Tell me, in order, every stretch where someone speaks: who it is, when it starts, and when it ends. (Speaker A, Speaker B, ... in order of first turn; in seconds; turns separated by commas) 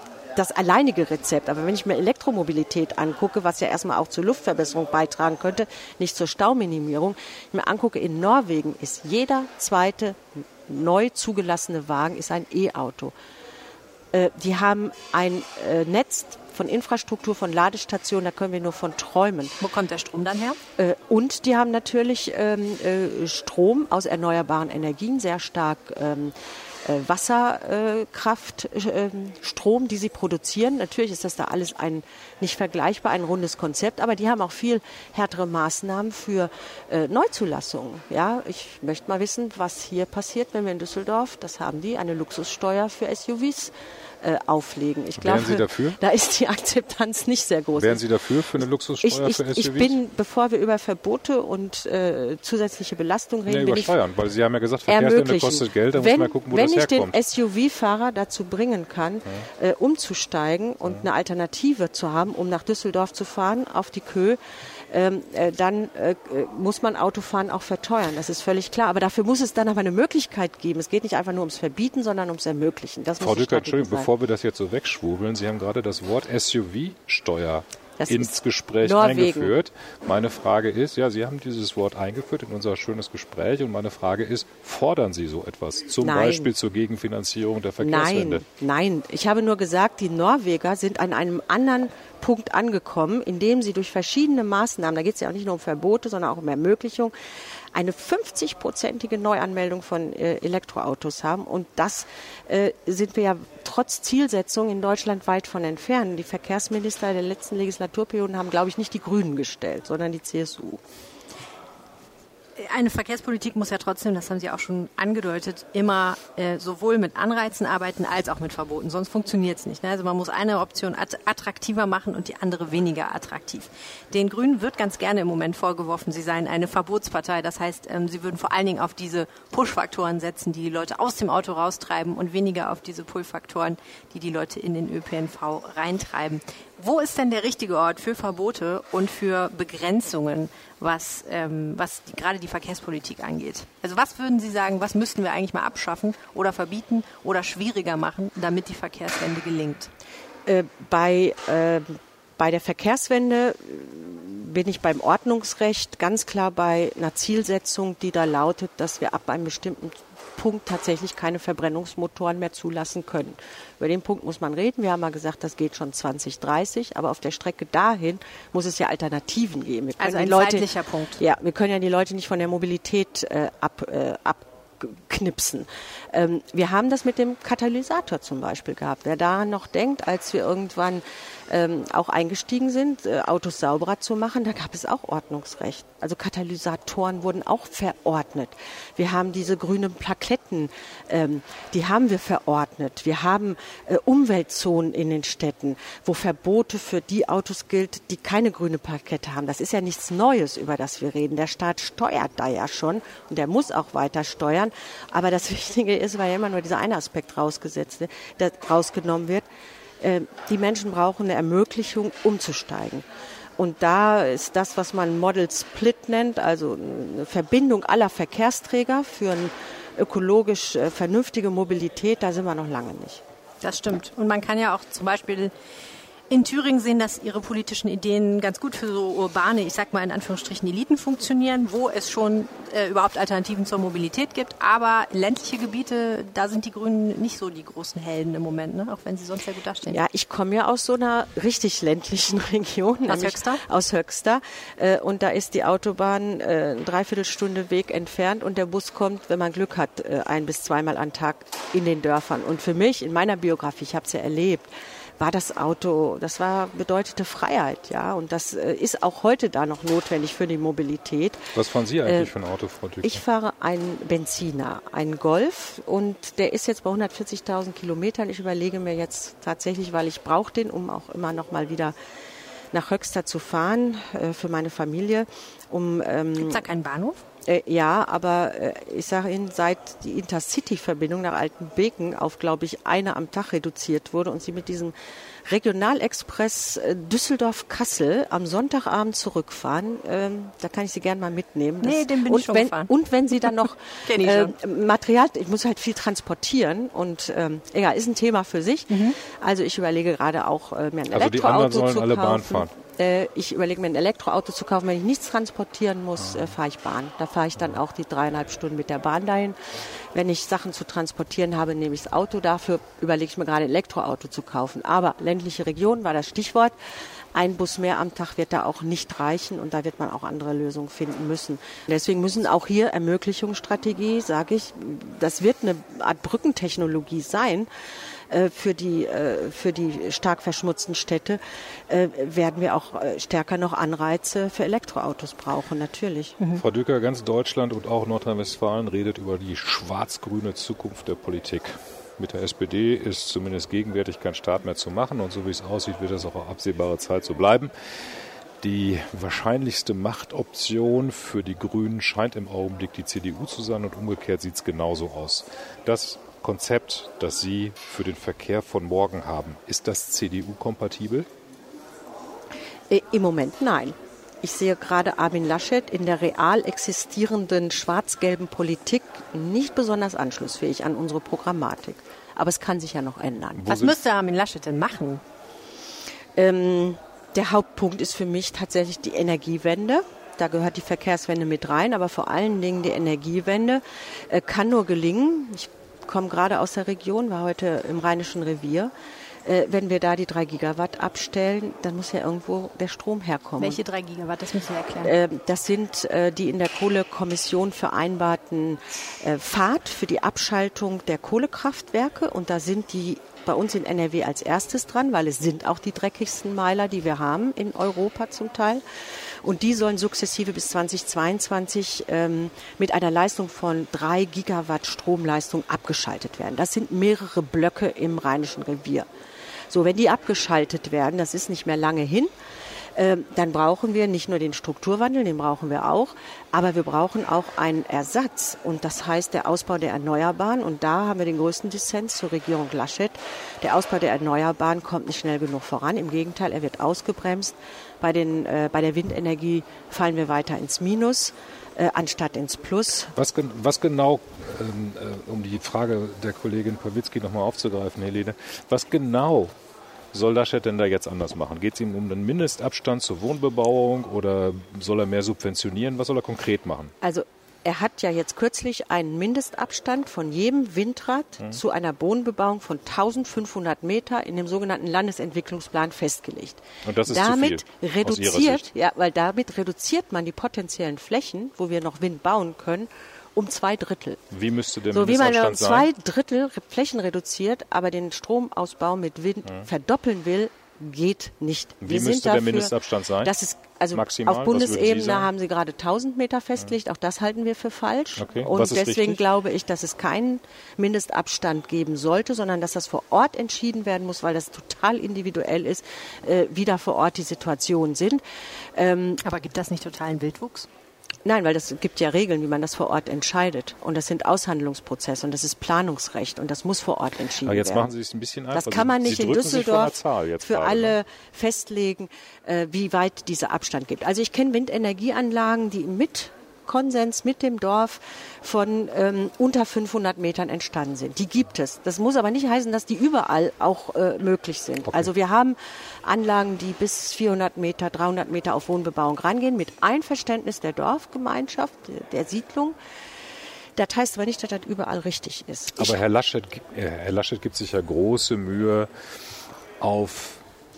Speaker A: 0.3-13.1, Speaker A: 14.1-19.6, Speaker B: 19.6-20.6, Speaker A: 20.8-48.0, Speaker C: 45.2-46.0, Speaker C: 47.8-50.0, Speaker A: 49.0-53.9, Speaker C: 53.5-57.1, Speaker A: 54.9-64.4, Speaker A: 64.9-74.1, Speaker C: 73.2-88.4, Speaker A: 78.0-79.5, Speaker A: 86.0-86.5, Speaker A: 87.8-97.1, Speaker A: 97.7-110.8, Speaker B: 112.6-149.9, Speaker A: 150.5-209.4, Speaker B: 170.0-171.2, Speaker A: 210.0-213.0, Speaker A: 213.6-223.2, Speaker B: 223.6-225.5, Speaker B: 226.3-240.0, Speaker A: 239.9-261.5, Speaker B: 243.1-243.6, Speaker C: 261.5-263.2, Speaker A: 262.0-262.3, Speaker A: 263.0-271.9, Speaker A: 272.7-276.6, Speaker B: 276.4-277.2, Speaker A: 277.4-284.9, Speaker A: 285.5-309.6, Speaker B: 291.8-292.9, Speaker B: 294.0-294.6, Speaker B: 298.9-299.2, Speaker C: 301.1-302.7, Speaker A: 310.1-316.8, Speaker A: 317.3-327.7, Speaker A: 328.3-336.4, Speaker C: 336.6-347.7, Speaker C: 348.6-361.3, Speaker A: 362.9-373.7, Speaker C: 373.6-373.9, Speaker B: 373.7-375.2, Speaker A: 376.4-388.9, Speaker A: 389.4-393.8, Speaker B: 393.6-395.1, Speaker A: 395.0-408.8, Speaker A: 409.4-419.1, Speaker A: 419.7-422.3, Speaker A: 422.9-443.1, Speaker C: 443.1-449.5, Speaker C: 450.1-456.9, Speaker A: 457.0-474.2, Speaker C: 466.8-468.6, Speaker C: 474.3-475.9, Speaker A: 474.9-498.2, Speaker C: 481.8-483.3, Speaker C: 483.9-485.3, Speaker C: 488.2-489.2, Speaker A: 498.8-499.2, Speaker B: 499.2-500.7, Speaker A: 501.2-507.9, Speaker C: 507.4-511.0, Speaker A: 508.5-532.8, Speaker C: 524.9-525.1, Speaker A: 533.8-536.0, Speaker C: 535.8-538.9, Speaker C: 539.8-540.4